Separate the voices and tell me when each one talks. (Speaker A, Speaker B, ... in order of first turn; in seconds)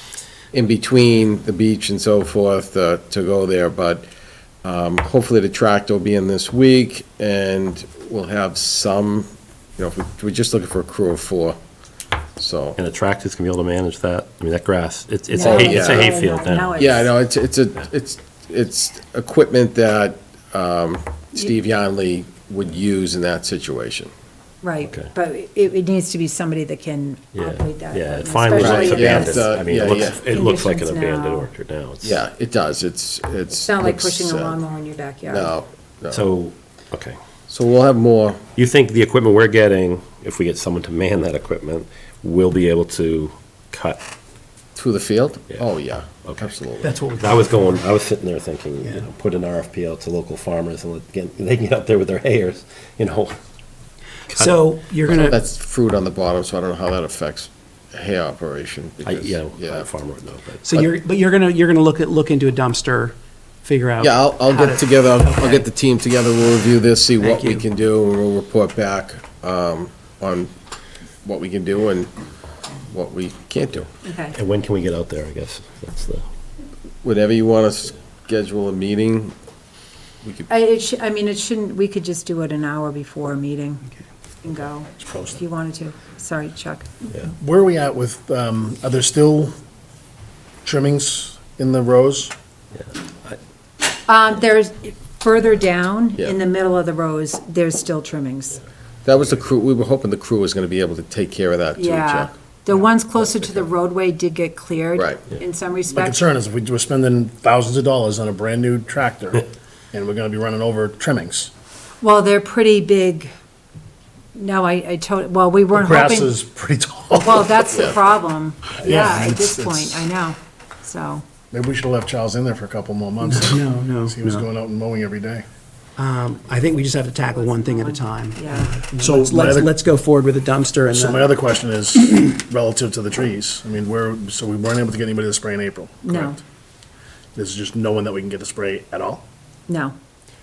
Speaker A: 0.5-4.1, 4.6-11.6, 12.4-12.8, 15.4-16.1, 16.8-24.1, 28.5-30.2, 32.0-34.6, 35.2-36.2, 37.5-38.4, 44.8-46.9, 55.0-59.9, 64.0-70.5, 71.2-72.1, 72.9-73.9, 77.0-79.3, 80.2-80.5, 99.0-102.3, 103.2-103.6
Speaker B: 12.8-16.9, 27.3-32.2, 36.1-37.2, 38.5-44.0, 45.5-46.5, 47.2-53.4, 54.3-54.6, 59.0-60.8, 74.3-76.2, 92.8-93.4
Speaker C: 15.3-17.1, 24.6-31.5, 33.5-35.5, 74.0-74.3, 80.5-83.9, 84.4-86.9, 94.1-98.6, 101.8-106.2, 112.0-113.3, 114.3-116.3, 117.2-121.2, 127.3-128.8, 136.0-136.4, 139.7-139.9
Speaker D: 46.8-47.8, 54.3-55.4, 60.6-65.7, 67.2-67.6, 123.2-124.5, 126.0-131.3
Speaker E: 87.2-89.5, 90.6-92.3, 105.9-111.5, 115.7-117.9, 118.7-120.1, 121.5-125.4, 129.0-129.7, 130.9-136.4, 137.3-139.2